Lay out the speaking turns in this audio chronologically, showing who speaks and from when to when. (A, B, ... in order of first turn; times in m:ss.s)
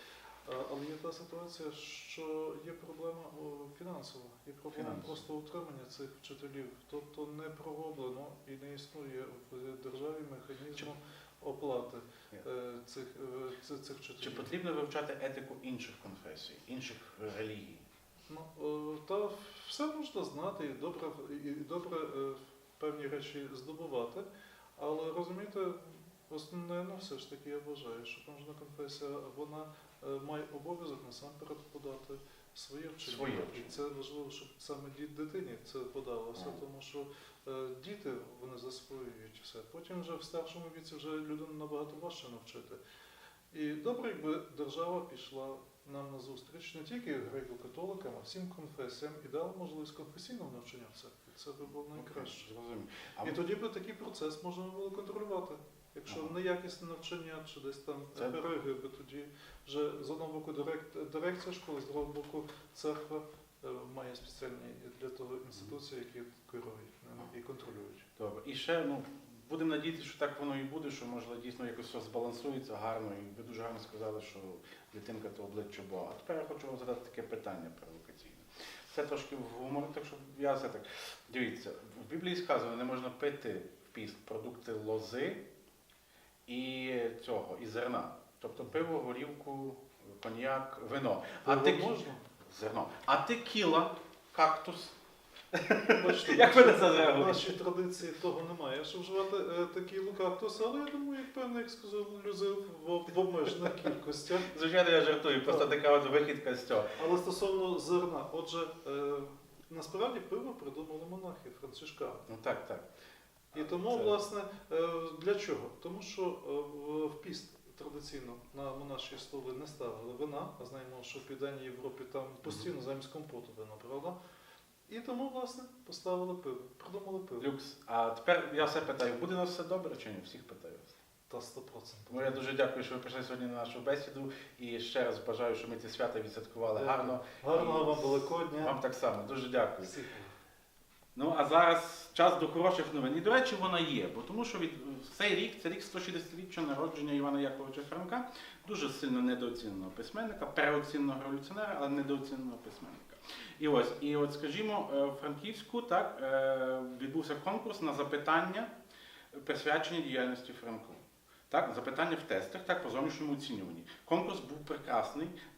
0:00.4-0:14.5 A
0:04.7-0:05.2 B
0:14.2-0:17.8 B
0:18.3-0:24.2 A
0:24.8-0:42.8 A
0:33.0-0:33.8 B
0:43.5-0:52.5 A
0:51.9-0:53.4 B
0:53.2-1:08.1 A
0:56.1-0:56.3 B
1:08.2-1:25.4 B
1:26.4-1:31.9 B
1:31.4-1:32.2 A
1:32.4-1:35.0 B
1:35.5-1:37.6 B
1:35.8-1:44.5 A
1:43.5-1:46.9 B
1:45.4-1:45.7 A
1:47.0-1:52.2 A
1:52.3-1:52.8 B
1:53.5-2:04.2 A
1:53.6-1:54.2 B
2:04.9-2:07.5 A
2:07.4-2:11.0 B
2:11.3-2:12.4 A
2:12.1-2:19.9 B
2:16.7-2:18.8 A
2:19.8-2:20.3 A
2:21.1-2:38.7 B
2:39.3-2:45.4 B